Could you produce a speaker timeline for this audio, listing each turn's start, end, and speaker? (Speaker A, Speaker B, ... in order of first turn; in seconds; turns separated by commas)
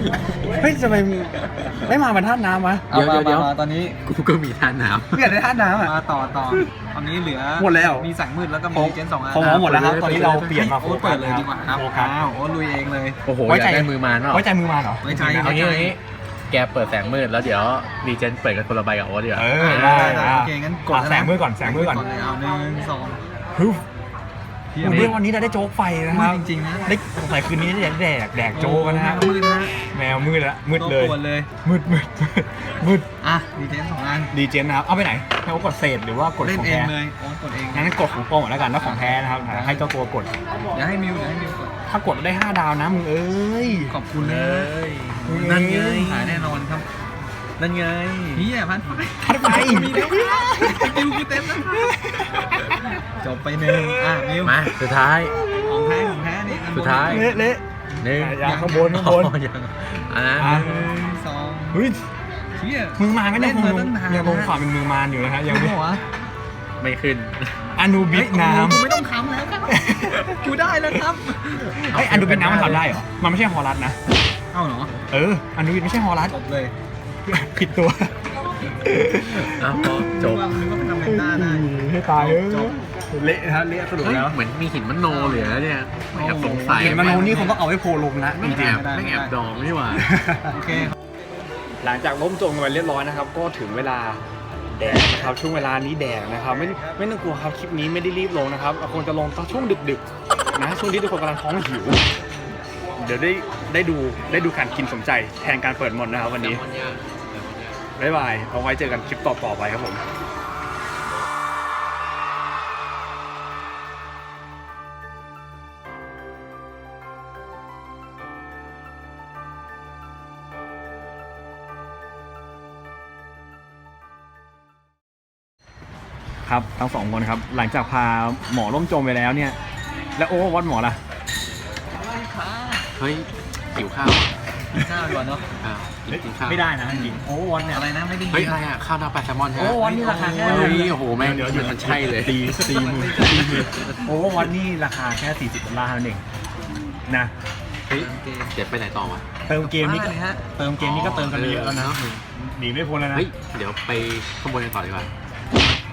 Speaker A: 0.6-2.9, Speaker B: 2.9-4.0, Speaker C: 2.9-3.5, Speaker C: 4.0-5.3, Speaker A: 5.1-5.9, Speaker B: 5.8-9.6, Speaker A: 7.6-8.1, Speaker A: 8.7-12.2, Speaker C: 9.4-10.6, Speaker B: 10.4-13.2, Speaker C: 13.2-14.4, Speaker A: 13.4-15.4, Speaker B: 15.0-16.0, Speaker C: 15.2-19.6, Speaker A: 19.3-22.0, Speaker B: 19.5-23.2, Speaker A: 23.5-23.8, Speaker B: 24.7-25.2, Speaker A: 24.8-29.3, Speaker C: 24.8-25.2, Speaker B: 26.1-26.9, Speaker B: 28.5-29.8, Speaker A: 29.9-33.0, Speaker B: 30.8-31.5, Speaker B: 33.2-34.3, Speaker A: 34.3-36.9, Speaker B: 36.4-38.0, Speaker A: 37.7-40.3, Speaker B: 38.8-39.9, Speaker B: 40.7-41.7, Speaker A: 41.9-44.0, Speaker B: 43.7-44.7, Speaker C: 44.1-46.6, Speaker A: 45.2-46.2, Speaker B: 45.3-46.9, Speaker C: 47.6-48.5, Speaker B: 48.3-52.3, Speaker A: 49.2-53.0, Speaker B: 53.2-54.6, Speaker A: 53.6-54.2, Speaker C: 54.4-55.4, Speaker A: 55.5-56.2, Speaker B: 55.5-57.5, Speaker C: 56.7-57.3, Speaker A: 57.0-59.4, Speaker C: 58.0-61.2, Speaker B: 58.4-59.0, Speaker A: 60.4-60.9, Speaker B: 60.5-61.8, Speaker A: 61.7-62.0, Speaker B: 62.5-64.6, Speaker A: 63.0-65.8, Speaker B: 65.5-66.0, Speaker C: 66.8-67.5, Speaker A: 67.8-68.8, Speaker B: 68.1-72.8, Speaker A: 69.7-70.4, Speaker A: 71.6-74.0, Speaker C: 71.9-72.8, Speaker B: 74.5-74.9, Speaker A: 75.1-76.3, Speaker B: 76.3-76.7, Speaker A: 77.2-78.1, Speaker A: 78.7-80.1, Speaker C: 79.4-80.6, Speaker B: 80.0-82.8, Speaker A: 80.9-84.4, Speaker C: 84.0-87.3, Speaker B: 85.0-87.7, Speaker A: 86.8-88.8, Speaker C: 88.4-90.1, Speaker B: 88.5-89.3, Speaker A: 90.0-90.5, Speaker B: 90.4-90.9, Speaker A: 91.8-100.0, Speaker A: 100.5-102.0, Speaker A: 103.0-106.6, Speaker C: 106.3-107.8, Speaker A: 108.0-110.0, Speaker A: 126.4-129.6, Speaker A: 130.2-131.0, Speaker B: 132.0-132.9, Speaker C: 132.9-134.3, Speaker B: 134.6-135.5, Speaker C: 135.6-137.2, Speaker A: 136.1-137.8, Speaker B: 137.7-138.6, Speaker C: 138.3-139.8, Speaker A: 139.6-146.2, Speaker B: 139.7-140.9, Speaker C: 140.4-143.7, Speaker B: 142.5-144.5, Speaker A: 147.1-147.3, Speaker B: 147.9-148.6, Speaker C: 147.9-149.2, Speaker A: 149.5-153.3, Speaker B: 149.6-150.4, Speaker C: 150.8-152.0, Speaker C: 153.1-155.1, Speaker B: 155.5-155.8